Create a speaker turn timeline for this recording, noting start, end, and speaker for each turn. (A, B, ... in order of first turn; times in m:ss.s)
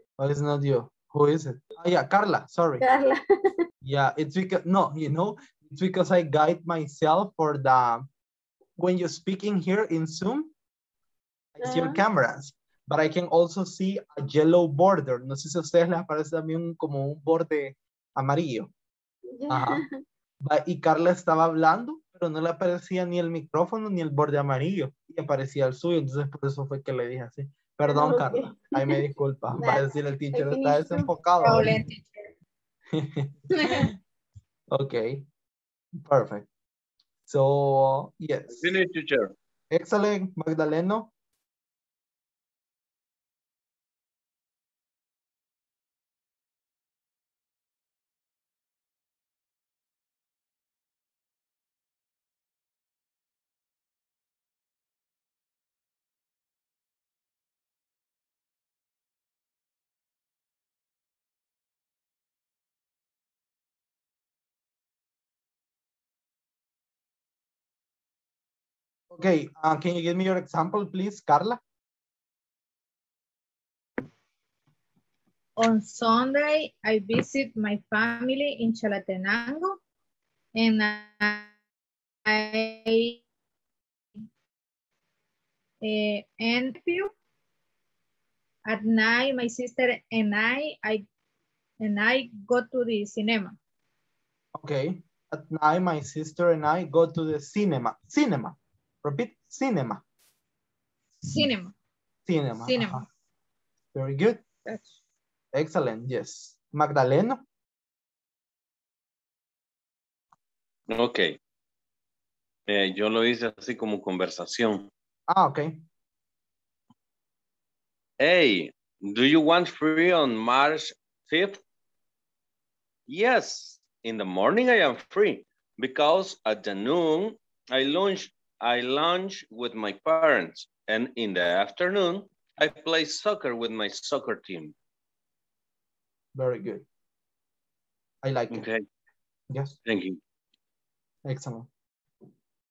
0:00.2-0:02.8 A
0:02.8-0:03.6 B
0:03.8-0:08.1 A
0:08.8-0:10.5 A
0:11.6-0:18.7 A
0:11.6-0:12.0 B
0:19.3-0:19.9 B
0:19.5-0:19.8 A
0:20.4-0:31.8 A
0:27.8-0:31.1 B
0:31.4-0:32.2 C
0:32.9-0:33.9 A
0:34.7-0:35.2 A
0:36.0-0:36.5 A
0:37.3-0:38.8 A
0:38.5-0:39.3 D
0:39.7-0:41.1 A
1:09.1-1:11.6 A
1:15.6-1:19.8 C
1:20.6-1:21.5 C
1:22.2-1:23.2 C
1:25.8-1:27.1 C
1:28.7-1:31.0 C
1:31.8-1:33.6 C
1:34.5-1:40.0 A
1:41.2-1:41.7 C
1:42.2-1:43.0 A
1:42.6-1:43.0 C
1:43.9-1:44.4 A
1:44.6-1:45.0 C
1:45.5-1:47.4 A
1:50.9-1:51.4 D
1:52.7-1:54.9 D
1:55.3-1:55.8 A
1:58.2-2:01.6 D
2:03.1-2:14.7 D
2:16.3-2:16.8 A
2:18.2-2:18.6 A
2:18.5-2:18.8 D
2:19.5-2:19.8 A
2:19.8-2:20.2 D
2:21.2-2:21.7 A